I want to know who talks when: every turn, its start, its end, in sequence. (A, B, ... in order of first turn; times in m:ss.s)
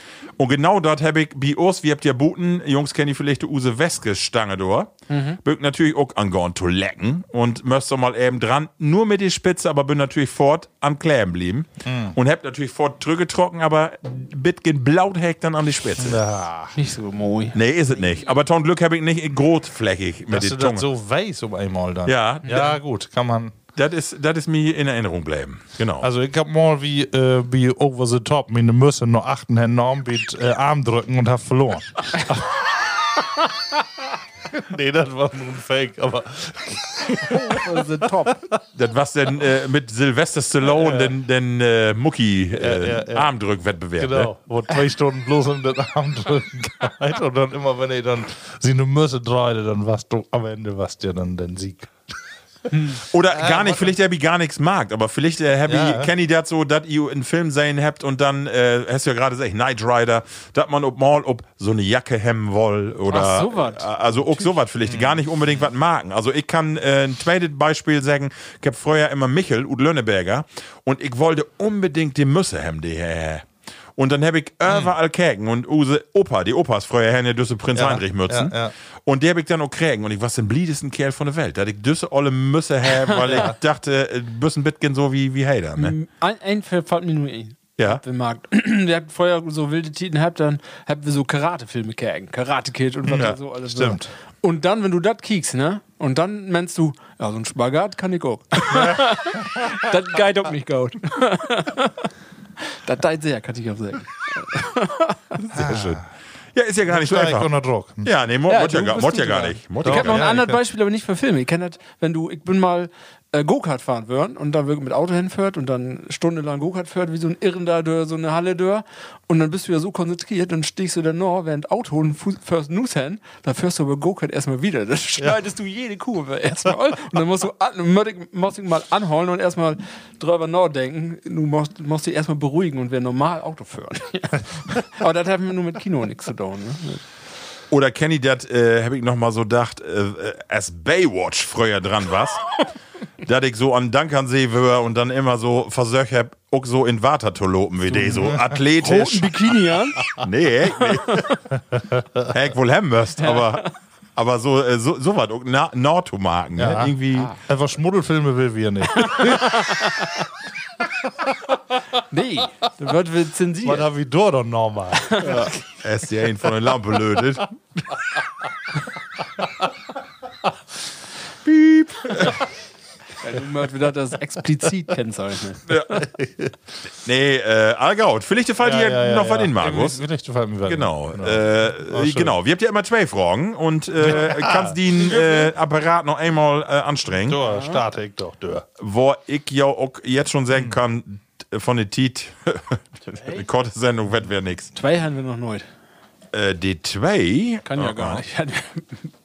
0:00.4-0:04.9 A
0:05.1-0:05.4 B
0:05.4-0:16.2 A
0:11.8-0:12.2 C
0:16.0-0:16.7 C
0:16.7-0:18.1 B
0:17.5-0:20.9 A
0:20.3-0:23.6 C
0:22.1-0:22.7 A
0:23.8-0:26.1 A
0:26.0-0:32.6 C
0:34.5-0:38.3 C
0:37.1-0:38.4 B
0:38.7-0:44.3 A
0:40.6-0:41.2 C
0:42.6-0:43.3 C
0:44.0-0:52.2 C
0:52.7-0:53.0 B
0:53.1-1:26.0 A
0:53.3-0:53.9 C
0:55.7-0:56.1 C
1:03.1-1:04.6 B
1:04.8-1:05.2 C
1:14.7-1:14.9 C
1:17.7-1:18.7 C
1:23.1-1:23.5 B
1:25.8-1:42.1 B
1:33.0-1:34.1 C
1:38.7-1:39.0 C
1:42.7-1:45.4 B
1:45.5-1:46.0 A
1:45.5-1:46.1 C
1:46.6-1:47.5 A
1:46.9-1:48.1 C
1:48.0-1:50.2 A
1:48.5-2:17.0 B
1:49.8-1:50.6 C
2:17.7-2:22.4 A
2:23.2-2:29.3 A
2:28.0-2:28.6 C
2:28.8-2:30.2 B
2:30.2-2:31.3 A
2:31.9-2:32.3 C
2:32.3-2:37.3 A
2:33.2-2:33.7 B
2:36.6-2:39.7 C
2:39.1-2:40.2 B
2:42.1-2:43.9 B
2:43.6-2:45.3 C
2:45.0-2:45.4 B
2:45.2-2:47.5 A
2:51.4-2:52.4 A
2:53.2-2:55.7 B
2:55.7-2:56.0 A
2:56.0-2:56.5 C
2:57.0-3:00.0 A
2:58.6-3:02.4 C
3:00.7-3:07.4 A
3:04.0-3:04.8 C
3:05.0-3:05.5 B
3:07.3-3:08.7 C
3:07.4-3:07.8 B
3:08.8-3:14.7 A
3:10.5-3:10.8 C
3:13.1-3:13.4 B
3:14.7-3:15.7 B
3:16.3-3:18.2 A
3:17.7-3:19.0 B